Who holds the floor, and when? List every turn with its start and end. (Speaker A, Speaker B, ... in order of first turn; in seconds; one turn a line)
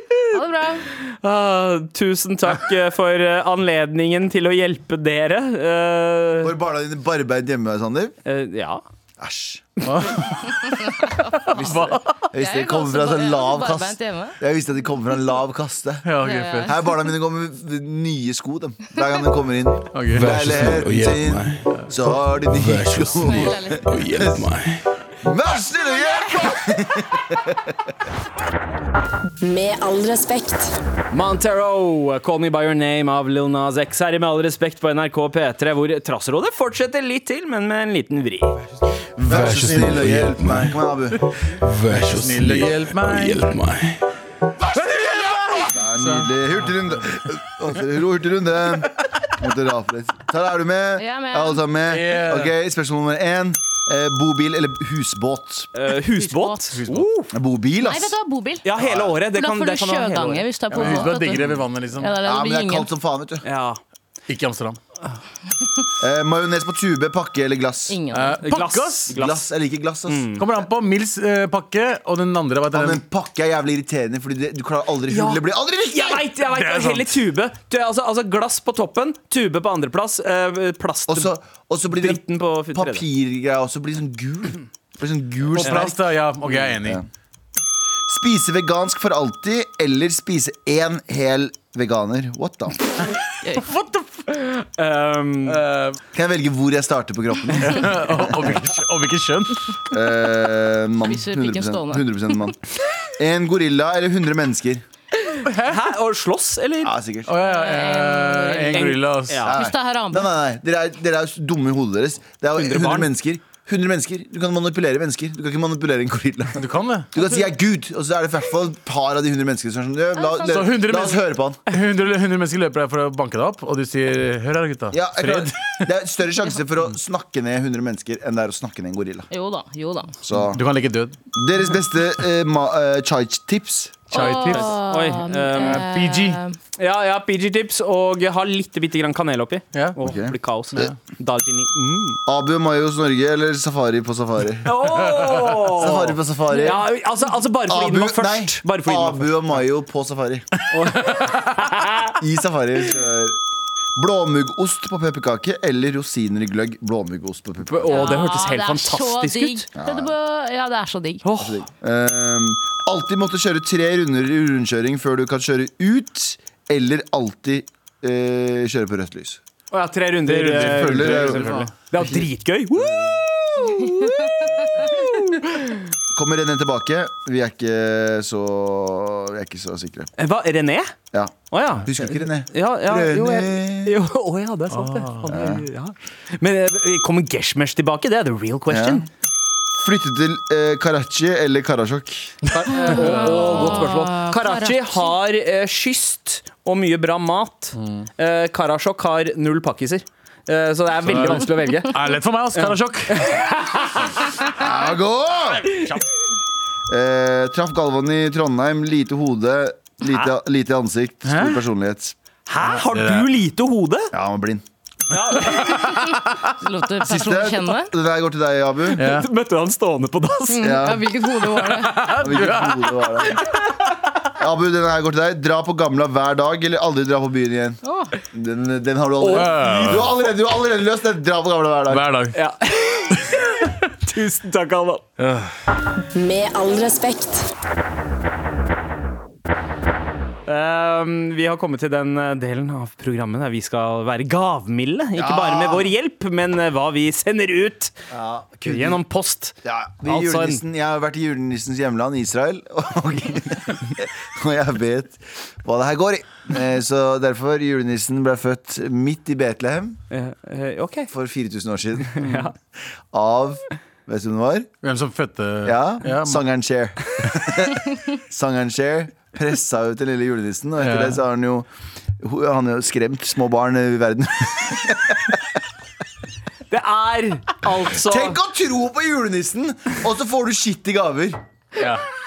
Speaker A: 0.3-0.9
Speaker B: 0.9-6.5
Speaker C: 6.4-8.1
Speaker B: 8.2-8.8
Speaker C: 9.2-9.7
Speaker D: 9.8-12.2
Speaker A: 10.6-11.4
Speaker C: 11.5-16.1
Speaker A: 12.3-14.4
Speaker D: 16.0-16.8
Speaker A: 16.2-16.8
Speaker C: 16.6-24.4
Speaker D: 19.9-20.3
Speaker E: 20.1-24.9
Speaker A: 23.2-23.9
Speaker C: 25.2-27.8
Speaker A: 26.2-26.6
Speaker F: 29.4-30.8
Speaker B: 31.1-38.6
Speaker C: 39.2-41.3
Speaker E: 39.2-40.9
Speaker E: 41.6-44.0
Speaker D: 42.0-43.4
Speaker B: 44.9-45.5
Speaker C: 45.7-55.7
Speaker D: 46.0-46.7
Speaker A: 51.0-51.6
Speaker D: 51.9-52.5
Speaker B: 55.7-57.3
Speaker A: 56.2-56.8
Speaker D: 56.8-57.1
Speaker C: 57.3-58.1
Speaker A: 57.8-58.7
Speaker B: 58.6-60.5
Speaker C: 58.8-59.1
Speaker A: 59.3-62.9
Speaker D: 60.7-62.1
Speaker C: 62.2-63.5
Speaker B: 63.4-63.8
Speaker D: 64.3-64.8
Speaker C: 66.0-68.0
Speaker A: 67.9-68.4
Speaker D: 68.1-69.1
Speaker B: 68.4-69.5
Speaker C: 69.1-70.3
Speaker B: 70.1-70.4
Speaker D: 70.4-73.0
Speaker C: 72.7-76.3
Speaker B: 75.1-81.3
Speaker D: 76.5-77.1
Speaker C: 81.1-82.2
Speaker B: 82.0-83.0
Speaker C: 82.7-86.0
Speaker D: 85.5-87.0
Speaker B: 85.5-85.9
Speaker C: 86.6-87.0
Speaker C: 88.1-92.8
Speaker D: 93.5-94.2
Speaker B: 94.8-95.6
Speaker D: 95.5-96.0
Speaker C: 96.1-98.6
Speaker D: 97.6-99.7
Speaker C: 99.9-102.6
Speaker A: 101.0-102.0
Speaker C: 103.2-104.8
Speaker D: 105.4-105.9
Speaker B: 105.7-106.9
Speaker C: 106.8-107.3
Speaker D: 107.3-109.5
Speaker A: 107.4-110.3
Speaker B: 109.3-109.5
Speaker C: 109.5-116.6
Speaker B: 112.5-113.1
Speaker D: 116.5-117.1
Speaker C: 117.1-121.6
Speaker A: 120.2-120.7
Speaker D: 120.4-125.9
Speaker C: 124.9-129.3
Speaker A: 129.3-130.2
Speaker C: 130.2-130.6
Speaker D: 130.4-131.2
Speaker C: 131.3-134.2
Speaker A: 134.1-136.6
Speaker D: 134.1-134.8
Speaker B: 134.2-135.9
Speaker D: 135.6-136.4
Speaker B: 136.8-142.2
Speaker C: 140.0-140.9
Speaker C: 142.2-144.7
Speaker B: 144.6-149.3
Speaker C: 145.8-146.9
Speaker C: 147.7-150.4
Speaker B: 150.7-152.2
Speaker D: 150.9-151.5
Speaker C: 152.2-153.4
Speaker C: 153.9-158.2
Speaker B: 157.7-159.6
Speaker A: 157.9-161.2
Speaker C: 159.8-160.1
Speaker B: 161.2-161.6
Speaker C: 161.4-169.4
Speaker B: 169.7-175.8
Speaker D: 170.3-171.7
Speaker C: 170.5-172.2
Speaker C: 172.8-173.2
Speaker C: 176.1-180.1
Speaker B: 180.2-180.9
Speaker C: 181.1-184.0
Speaker B: 181.5-189.1
Speaker D: 184.7-185.3
Speaker C: 185.3-185.6
Speaker C: 188.7-189.1
Speaker C: 189.7-192.4
Speaker B: 192.5-204.3
Speaker A: 192.7-195.0
Speaker D: 197.7-198.1
Speaker D: 201.0-203.3
Speaker A: 201.6-201.8
Speaker C: 204.6-205.8
Speaker C: 206.9-212.1
Speaker B: 210.0-210.3
Speaker D: 211.2-211.6
Speaker B: 212.5-214.1
Speaker D: 212.6-213.3
Speaker C: 214.1-214.6
Speaker B: 215.1-216.1
Speaker D: 215.1-216.0
Speaker A: 215.7-217.9
Speaker C: 217.0-219.1
Speaker B: 218.9-220.8
Speaker D: 218.9-219.3
Speaker A: 220.5-222.2
Speaker C: 220.6-221.1
Speaker D: 221.5-223.2
Speaker C: 222.2-223.4
Speaker C: 224.3-227.8
Speaker A: 227.8-228.1
Speaker C: 228.3-232.1
Speaker B: 229.2-230.0
Speaker D: 229.3-230.1
Speaker D: 231.9-232.3
Speaker B: 232.3-235.0
Speaker D: 235.2-235.5
Speaker F: 236.1-237.5
Speaker B: 240.4-247.9
Speaker C: 245.2-245.9
Speaker C: 248.1-249.0
Speaker B: 248.6-250.6
Speaker C: 249.6-260.0
Speaker B: 260.1-261.1
Speaker C: 261.1-262.4
Speaker B: 262.1-262.5
Speaker C: 263.1-264.7
Speaker D: 264.8-266.4
Speaker C: 265.6-271.7
Speaker D: 270.8-271.2
Speaker C: 272.2-275.4
Speaker B: 276.7-278.4
Speaker C: 277.9-281.4
Speaker D: 281.8-282.0